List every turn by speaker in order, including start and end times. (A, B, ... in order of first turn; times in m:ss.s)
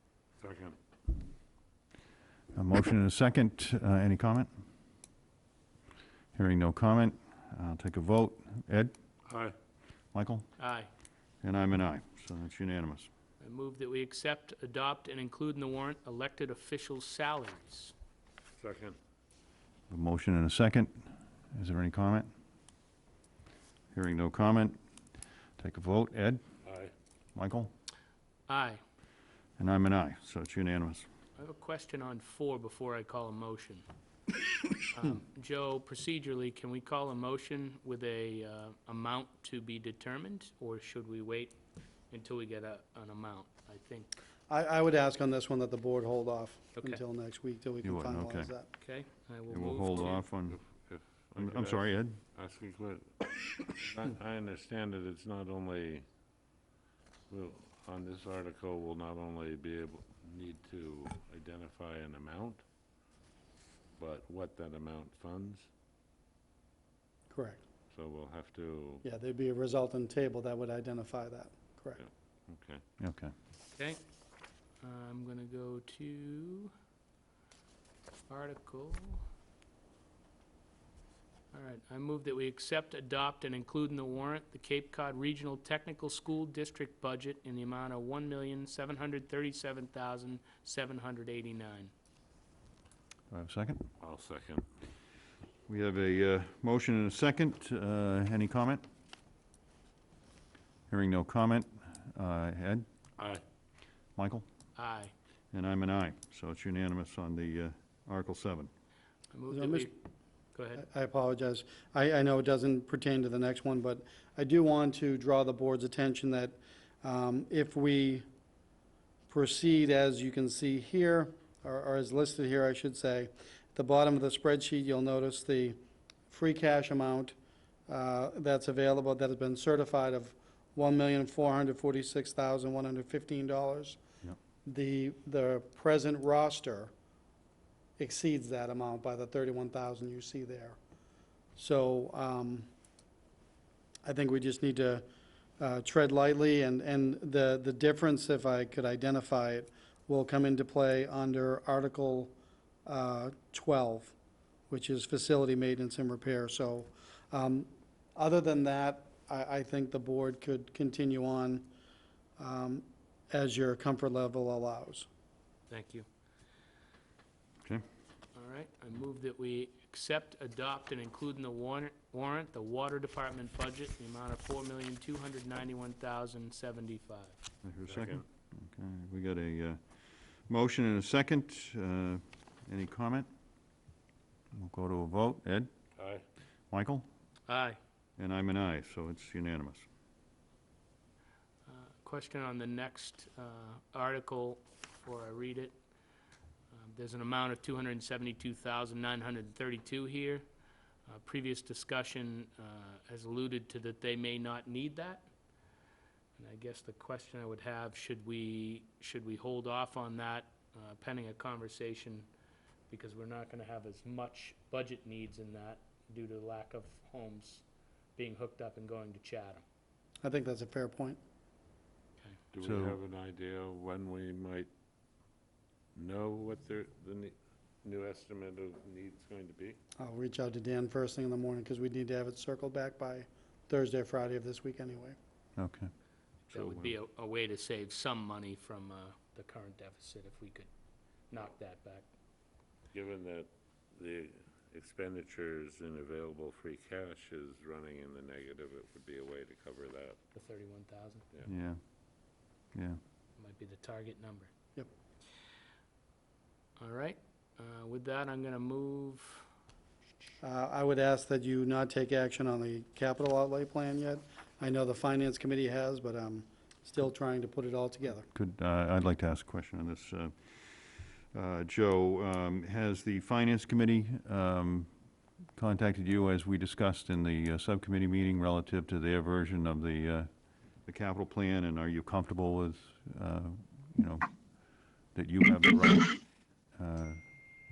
0:00.4-0:00.8 A
0:02.5-0:04.5 B
0:06.3-0:08.9 B
0:09.2-0:09.5 A
0:10.1-0:10.5 B
0:10.6-0:10.9 C
0:11.4-0:13.1 B
0:13.4-0:17.9 C
0:18.6-0:19.0 A
0:19.9-0:22.3 B
0:23.9-0:24.8 B
0:25.6-0:26.4 B
0:26.6-0:26.9 A
0:27.3-0:27.7 B
0:28.5-0:28.8 C
0:29.6-0:31.1 B
0:31.4-0:33.8 C
0:34.9-0:41.6 C
0:42.1-0:44.1 C
0:44.5-0:48.7 D
0:47.8-0:48.5 B
0:48.8-0:50.2 C
0:49.5-0:50.6 B
0:50.0-0:56.0 A
0:51.3-0:52.2 B
0:57.3-1:02.6 A
1:04.0-1:05.7 A
1:07.3-1:07.6 D
1:07.9-1:09.0 A
1:09.0-1:12.0 D
1:12.0-1:12.8 A
1:13.0-1:13.3 B
1:13.8-1:14.0 C
1:14.8-1:16.7 C
1:18.3-1:19.2 C
1:21.5-1:31.9 C
1:33.3-1:33.9 B
1:34.0-1:34.6 A
1:35.7-1:38.8 B
1:40.9-1:42.8 B
1:44.2-1:44.4 B
1:44.8-1:45.1 C
1:45.5-1:48.7 B
1:49.3-1:50.0 C
1:49.5-1:49.9 D
1:50.5-1:50.8 C
1:50.8-1:58.2 D
1:59.3-2:05.8 D
2:06.3-2:07.3 D
2:07.9-2:14.0 D
2:14.6-2:16.9 D
2:18.0-2:20.8 D
2:21.6-2:22.7 D
2:24.0-2:25.0 D
2:25.6-2:32.3 D
2:32.8-2:34.1 D
2:34.7-2:41.7 D
2:42.4-2:45.1 D
2:45.7-2:46.0 C
2:48.3-2:57.4 C
2:57.6-2:59.8 B
2:57.9-2:58.2 A
3:00.5-3:03.3 B
3:04.5-3:05.7 B
3:06.0-3:06.2 A
3:06.7-3:07.0 B
3:07.5-3:07.8 C
3:08.2-3:09.9 B
3:11.6-3:15.8 C
3:16.7-3:20.4 C
3:21.0-3:25.3 C
3:26.4-3:32.3 C
3:32.9-3:37.6 C
3:38.2-3:39.6 C
3:40.2-3:41.2 D
3:42.5-3:44.7 A
3:42.6-3:43.0 B
3:45.9-3:49.8 A
3:50.0-3:55.2 D
3:55.6-3:55.9 B
3:56.5-3:57.0 A
3:56.5-4:00.7 C
4:01.3-4:02.0 C
4:02.9-4:10.2 A
4:10.3-4:11.2 C
4:11.4-4:11.8 B
4:12.7-4:13.0 B
4:13.4-4:14.5 C
4:16.8-4:19.5 C
4:20.4-4:28.3 D
4:28.3-4:34.9 B
4:35.6-4:47.2 B